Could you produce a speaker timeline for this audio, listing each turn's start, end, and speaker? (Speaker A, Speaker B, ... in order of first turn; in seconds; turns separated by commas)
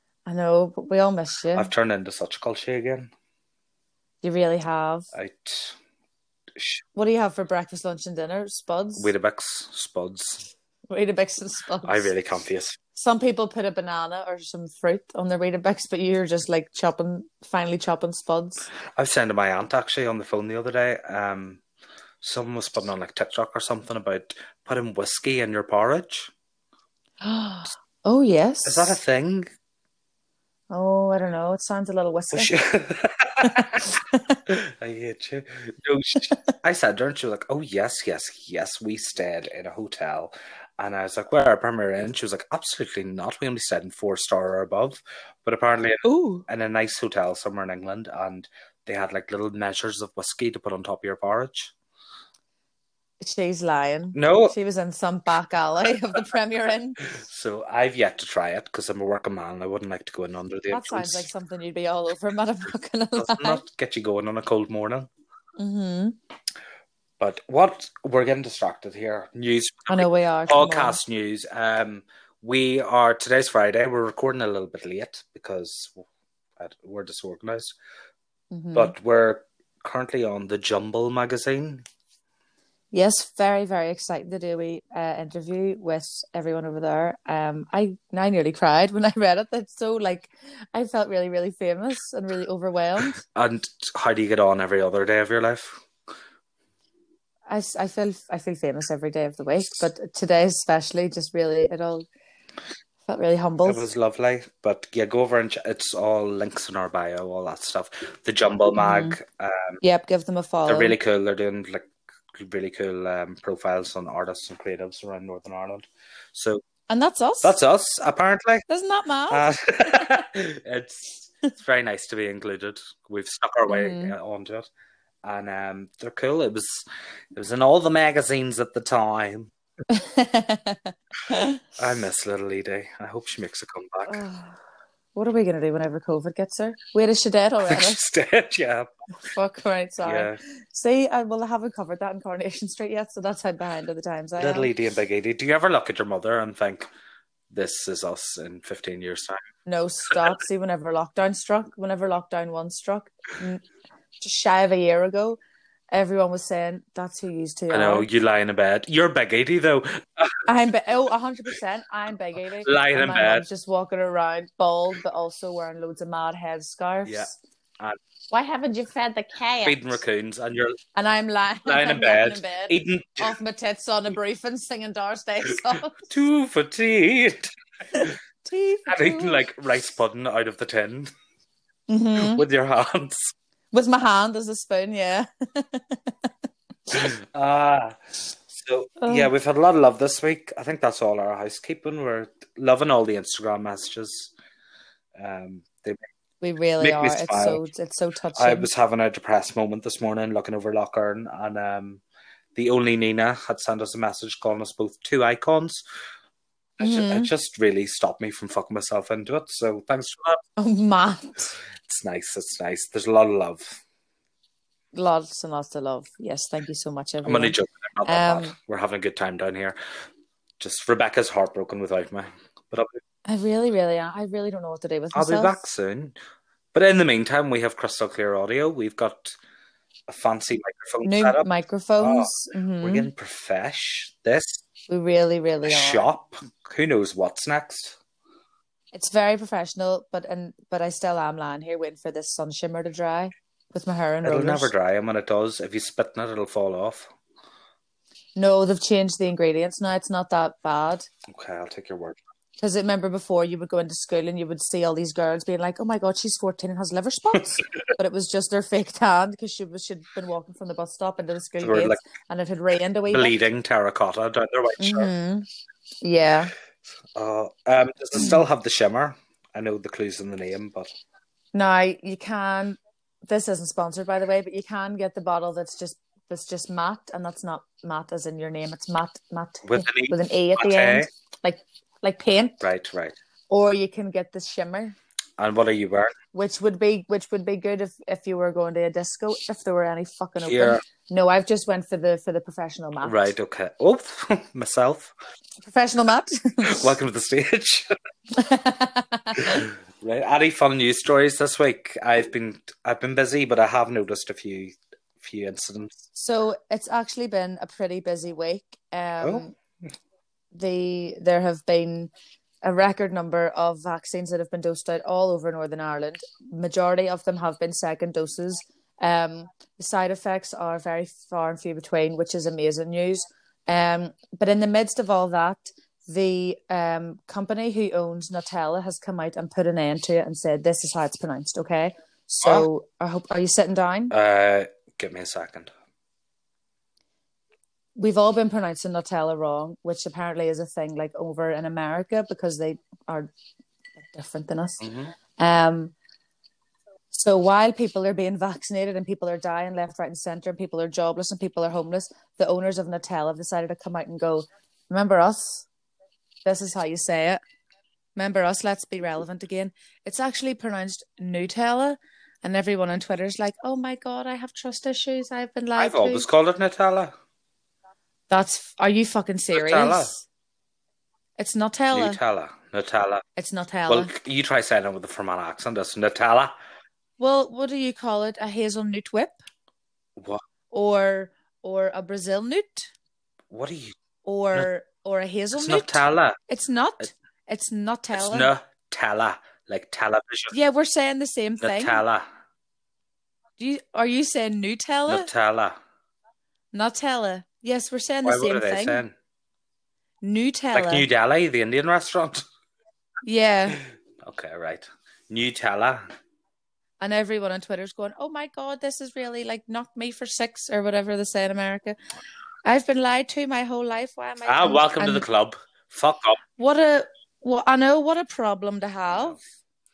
Speaker A: 0.2-1.7, Speaker B: 1.5-3.1, Speaker A: 4.2-5.1, Speaker B: 5.1-5.8, Speaker B: 6.6-6.8, Speaker A: 7.0-9.1, Speaker B: 9.0-10.5, Speaker A: 10.9-12.1, Speaker B: 11.8-12.8, Speaker A: 13.0-18.7, Speaker B: 19.0-21.6, Speaker B: 22.2-26.3, Speaker A: 27.2-29.0, Speaker B: 28.6-29.5, Speaker A: 30.7-32.5, Speaker B: 32.3-34.0, Speaker A: 33.4-34.4, Speaker B: 34.5-51.7, Speaker A: 46.0-46.5, Speaker A: 53.2-57.0, Speaker B: 54.1-54.5, Speaker B: 57.1-61.3, Speaker A: 60.7-63.6, Speaker B: 63.2-65.1, Speaker A: 65.6-66.2, Speaker B: 67.2-76.0, Speaker A: 69.9-71.0, Speaker B: 76.6-77.8, Speaker A: 78.5-79.0, Speaker B: 78.7-81.8, Speaker A: 82.9-93.2, Speaker B: 93.2-95.8, Speaker A: 97.5-102.1, Speaker A: 103.0-103.9, Speaker B: 103.7-109.8, Speaker A: 108.8-109.2, Speaker A: 109.8-111.0, Speaker B: 110.7-116.6, Speaker A: 116.9-117.5, Speaker B: 117.4-118.6, Speaker A: 118.7-119.9, Speaker B: 119.3-124.7, Speaker A: 123.7-124.1, Speaker B: 125.2-129.5, Speaker A: 129.9-131.6, Speaker B: 131.8-134.2, Speaker A: 134.1-134.6, Speaker A: 135.1-138.0, Speaker B: 137.7-138.9, Speaker A: 139.2-144.7, Speaker B: 140.0-140.4, Speaker B: 144.4-146.9, Speaker B: 147.5-149.4, Speaker A: 149.7-153.6, Speaker A: 154.2-155.4, Speaker A: 155.9-158.1, Speaker B: 157.7-160.4, Speaker A: 160.5-167.4, Speaker B: 162.6-163.4, Speaker B: 167.1-168.0, Speaker A: 168.3-170.0, Speaker B: 169.6-170.8, Speaker A: 170.9-176.0, Speaker B: 171.7-173.3, Speaker B: 176.0-178.1, Speaker A: 177.9-179.4, Speaker B: 178.9-181.1, Speaker A: 181.9-182.4, Speaker B: 182.2-183.3, Speaker A: 183.7-186.3, Speaker B: 186.9-194.3, Speaker A: 189.0-189.3, Speaker B: 195.2-196.0, Speaker A: 196.4-198.7, Speaker B: 196.8-197.6, Speaker B: 198.4-202.0, Speaker B: 202.5-205.8, Speaker B: 206.8-210.4, Speaker A: 206.8-207.3, Speaker A: 210.6-211.5, Speaker B: 211.9-213.8, Speaker A: 214.9-218.5, Speaker B: 217.2-219.8, Speaker B: 220.6-223.0, Speaker A: 223.2-225.6, Speaker B: 225.1-226.2, Speaker B: 226.7-229.4, Speaker B: 230.1-231.5, Speaker A: 231.0-233.1, Speaker B: 232.0-234.6, Speaker A: 234.9-236.1, Speaker B: 235.6-238.0, Speaker A: 238.9-244.7, Speaker B: 244.2-247.1, Speaker A: 248.4-251.1, Speaker B: 251.3-252.2, Speaker A: 252.6-263.4, Speaker B: 261.6-262.0, Speaker B: 263.1-265.1, Speaker A: 264.8-265.5, Speaker A: 266.0-266.5, Speaker B: 267.1-270.9, Speaker A: 268.2-268.4, Speaker A: 271.5-282.6, Speaker B: 279.6-281.1, Speaker B: 282.6-283.1, Speaker A: 283.5-285.0, Speaker B: 285.4-286.1, Speaker A: 286.3-293.3, Speaker B: 290.4-290.8, Speaker B: 293.0-295.1, Speaker A: 295.6-296.9, Speaker B: 296.6-297.9, Speaker A: 298.3-299.7, Speaker B: 299.4-306.0, Speaker A: 306.1-309.5, Speaker A: 310.5-312.1, Speaker A: 312.6-334.1, Speaker B: 334.1-335.7, Speaker A: 338.0-343.3, Speaker A: 344.1-345.9, Speaker B: 344.8-345.1, Speaker A: 347.1-355.7, Speaker A: 356.4-357.4, Speaker A: 358.1-366.2, Speaker B: 365.8-367.1, Speaker A: 368.3-370.2, Speaker B: 369.5-370.1, Speaker A: 371.4-372.2, Speaker B: 371.9-373.2, Speaker A: 373.4-374.1, Speaker B: 373.9-376.5, Speaker A: 377.2-379.4, Speaker B: 380.2-380.4, Speaker A: 380.7-382.9, Speaker B: 383.5-383.9, Speaker A: 384.2-388.5, Speaker B: 385.5-386.4, Speaker B: 388.1-390.5, Speaker A: 390.5-392.0, Speaker B: 391.6-392.2, Speaker A: 393.6-395.3, Speaker B: 395.1-395.8, Speaker A: 396.7-399.0, Speaker B: 398.2-399.1, Speaker A: 400.2-401.1, Speaker B: 400.7-402.4, Speaker A: 403.2-403.8, Speaker B: 404.2-406.0, Speaker A: 407.0-412.0, Speaker A: 412.6-415.2, Speaker B: 414.5-416.4, Speaker A: 416.6-419.4, Speaker B: 419.1-419.4